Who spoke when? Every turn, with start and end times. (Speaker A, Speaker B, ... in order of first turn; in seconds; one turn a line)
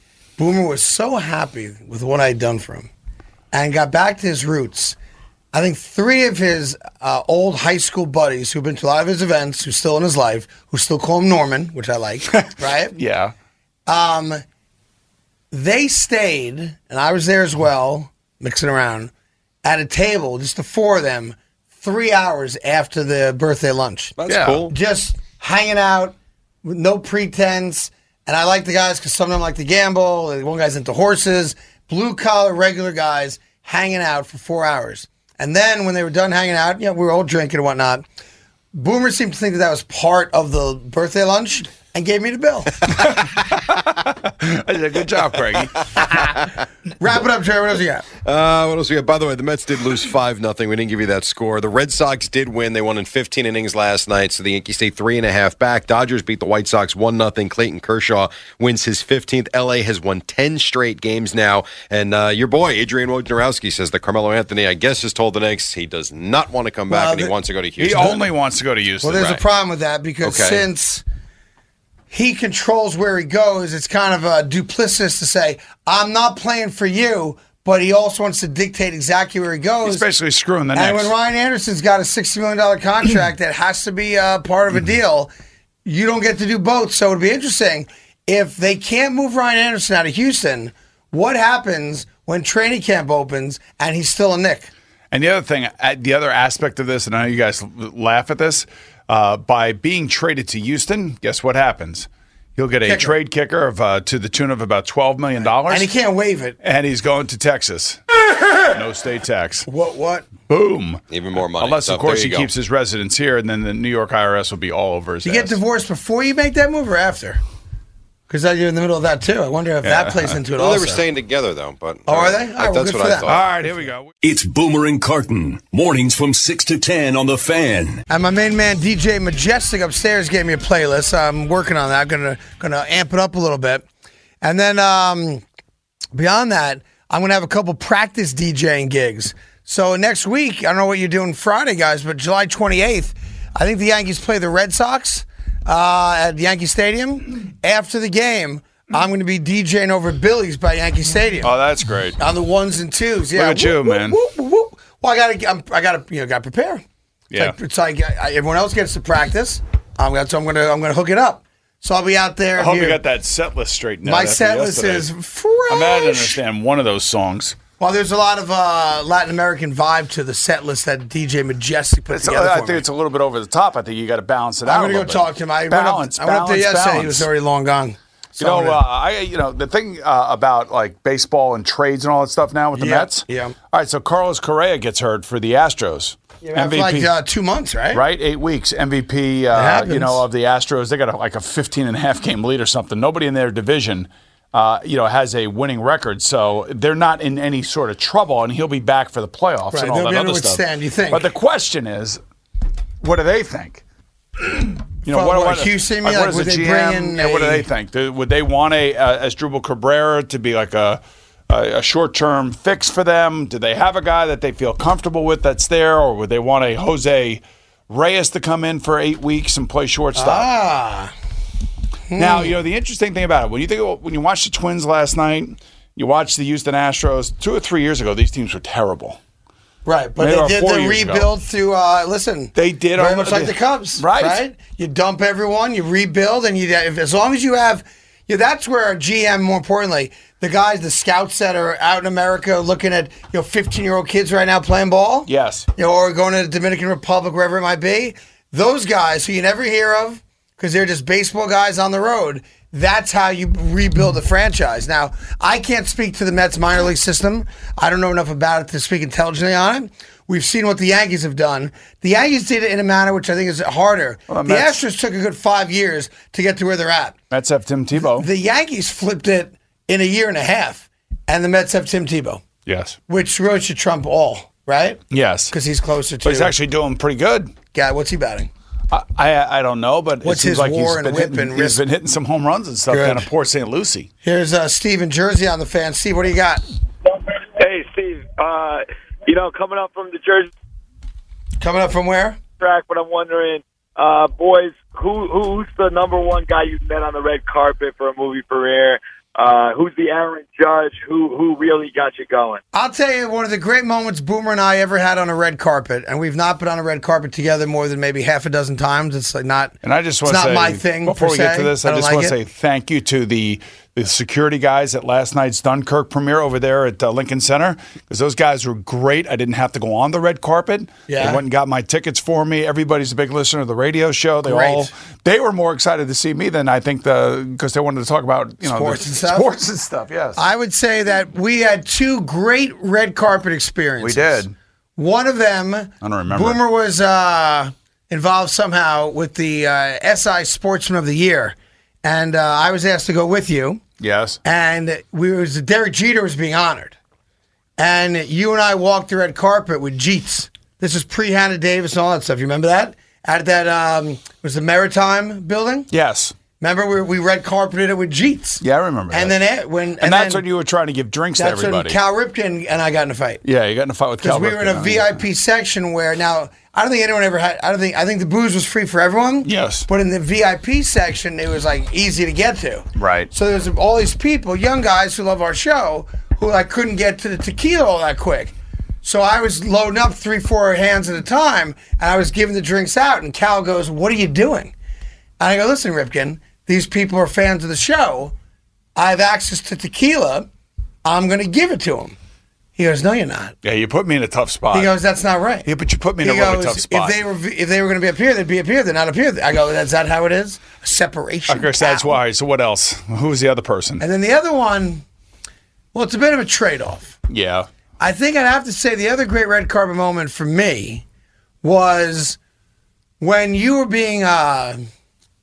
Speaker A: 0.4-2.9
Speaker A: 3.5-5.0
Speaker A: 5.5-12.9
Speaker B: 12.3-13.3
Speaker A: 13.9-14.4
Speaker A: 15.5-19.1
Speaker A: 19.6-24.1
Speaker C: 24.2-24.7
Speaker B: 24.2-24.6
Speaker A: 24.7-38.0
Speaker A: 38.7-42.9
Speaker B: 42.9-46.0
Speaker A: 47.0-48.0
Speaker C: 48.2-68.2
Speaker A: 66.9-67.3
Speaker B: 67.8-69.4
Speaker A: 69.0-71.0
Speaker C: 70.2-70.6
Speaker A: 72.1-80.1
Speaker B: 79.8-81.1
Speaker A: 80.7-85.3
Speaker A: 85.8-94.7
Speaker B: 95.1-105.9
Speaker A: 102.8-103.2
Speaker A: 105.6-106.6
Speaker B: 106.6-108.0
Speaker B: 108.7-109.7
Speaker A: 109.7-110.3
Speaker B: 110.5-111.0
Speaker C: 111.1-112.5
Speaker B: 111.5-115.6
Speaker A: 115.2-117.4
Speaker A: 118.3-121.0
Speaker B: 119.8-120.4
Speaker C: 120.6-123.4
Speaker A: 122.1-123.4
Speaker B: 123.2-124.1
Speaker D: 124.2-128.0
Speaker A: 128.1-133.8
Speaker A: 134.4-135.4
Speaker A: 136.1-151.5
Speaker B: 151.4-152.2
Speaker A: 152.2-163.0
Speaker B: 153.3-154.2
Speaker B: 162.6-165.1
Speaker A: 164.0-166.4
Speaker B: 165.7-167.6
Speaker A: 167.8-172.8
Speaker B: 172.1-177.3
Speaker A: 174.6-178.8
Speaker B: 178.4-187.1
Speaker A: 182.7-183.6
Speaker A: 186.4-188.0
Speaker B: 187.9-202.2
Speaker A: 189.5-190.2
Speaker A: 199.7-201.3
Speaker B: 203.0-203.8
Speaker B: 204.4-220.5
Speaker A: 205.1-207.7
Speaker A: 220.2-221.1
Speaker A: 222.1-222.6
Speaker B: 222.2-229.2
Speaker A: 229.8-267.1
Speaker B: 230.2-231.3
Speaker B: 232.6-234.4
Speaker B: 245.3-245.7
Speaker B: 264.3-264.8
Speaker B: 267.3-268.3
Speaker A: 268.0-272.4
Speaker B: 272.6-273.0
Speaker A: 273.1-276.5
Speaker B: 275.1-275.5
Speaker B: 276.2-277.5
Speaker A: 277.7-278.5
Speaker B: 278.9-284.1
Speaker A: 280.2-281.8
Speaker A: 282.9-283.3
Speaker A: 284.2-286.6
Speaker E: 287.2-290.5
Speaker A: 291.6-292.4
Speaker E: 292.6-302.6
Speaker A: 302.7-312.4
Speaker B: 309.8-330.4
Speaker A: 321.1-321.4
Speaker A: 324.4-324.9
Speaker A: 328.6-329.5
Speaker A: 330.4-334.4
Speaker B: 334.0-334.5
Speaker A: 334.9-343.8
Speaker B: 336.0-336.6
Speaker B: 344.0-344.4
Speaker A: 344.4-346.9
Speaker A: 347.8-355.9
Speaker B: 355.9-356.3
Speaker A: 356.6-360.4
Speaker B: 358.6-359.4
Speaker B: 360.0-362.0
Speaker A: 361.4-363.4
Speaker B: 363.4-365.2
Speaker A: 364.2-384.7
Speaker B: 369.4-369.9
Speaker B: 373.0-373.3
Speaker A: 385.4-388.3
Speaker A: 388.9-390.5
Speaker A: 391.0-392.2
Speaker A: 392.8-393.6
Speaker B: 393.6-394.9
Speaker A: 394.7-395.7
Speaker B: 395.6-397.2
Speaker A: 396.2-402.2
Speaker B: 401.5-404.0
Speaker A: 404.0-405.0
Speaker A: 405.9-407.1
Speaker B: 407.3-407.7
Speaker A: 408.0-411.0
Speaker A: 411.6-412.4
Speaker A: 413.2-414.8